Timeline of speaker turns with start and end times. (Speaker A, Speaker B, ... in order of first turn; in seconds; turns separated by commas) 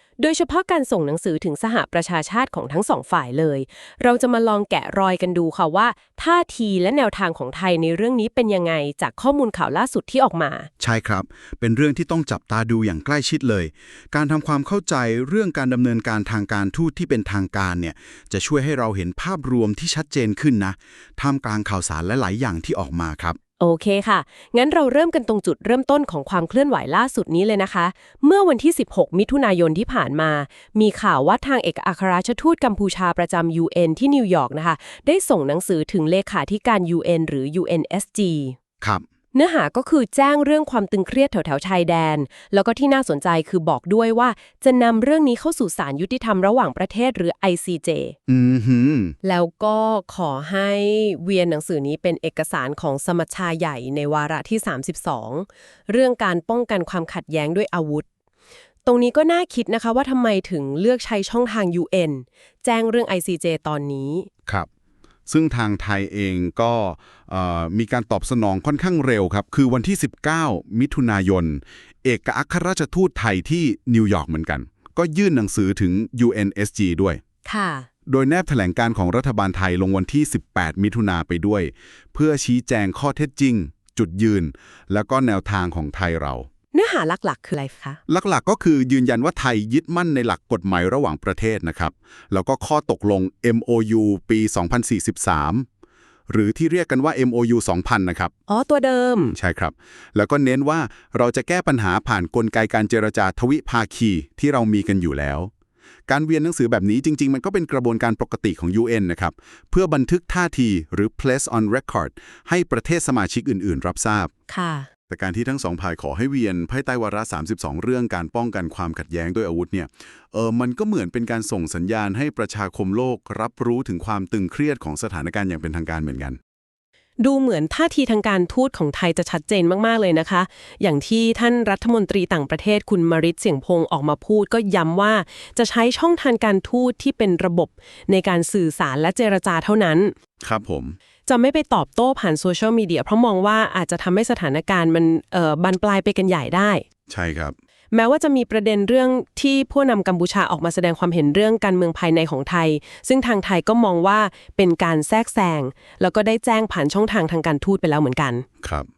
Speaker A: 0.2-10.7, Speaker B: 10.8-23.4, Speaker A: 23.6-38.6, Speaker A: 39.3-48.1, Speaker B: 48.3-49.2, Speaker A: 49.2-58.0, Speaker A: 58.9-64.3, Speaker B: 65.3-77.2, Speaker A: 77.5-77.9, Speaker B: 78.1-86.5, Speaker A: 86.7-88.0, Speaker B: 88.1-95.7, Speaker B: 96.3-98.3, Speaker A: 98.5-99.4, Speaker B: 99.4-105.5, Speaker B: 106.1-114.3, Speaker A: 114.5-114.9, Speaker B: 115.1-126.4, Speaker A: 127.2-140.1, Speaker B: 140.4-141.0, Speaker A: 141.3-146.8, Speaker B: 147.1-147.6, Speaker A: 147.9-158.4, Speaker B: 158.6-158.9